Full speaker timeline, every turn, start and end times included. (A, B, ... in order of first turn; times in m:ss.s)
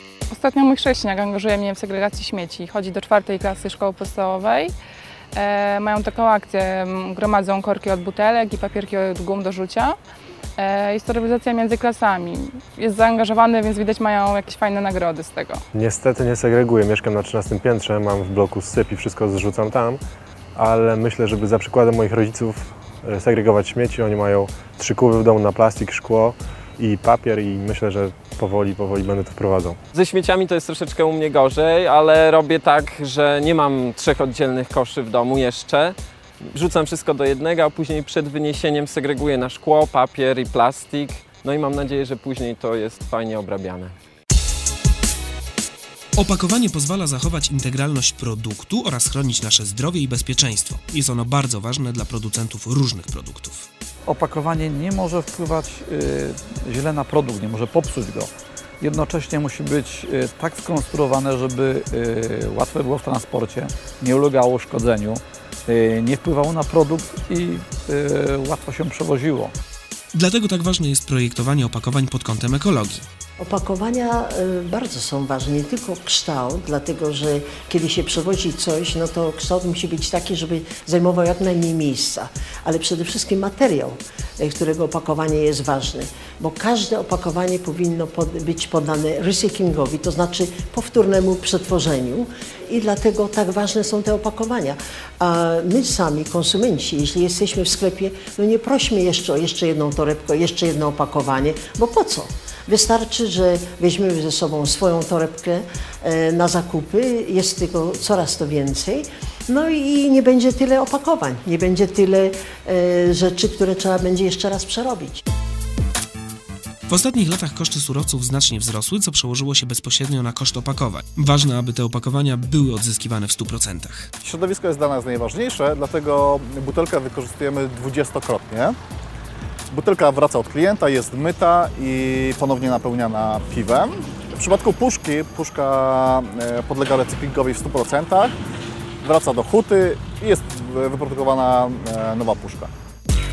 0:00.3-0:04.7 A
0:05.4-0:10.0 A
0:10.6-0:15.6 A
0:15.7-0:20.0 B
0:20.6-0:29.8 B
0:29.9-0:44.0 C
0:46.2-0:53.7 D
0:54.1-1:09.5 E
1:10.1-1:13.0 D
1:13.4-1:55.2 F
1:56.9-2:04.1 D
2:04.2-2:08.8 G
2:09.7-2:18.4 G
2:19.0-2:22.7 G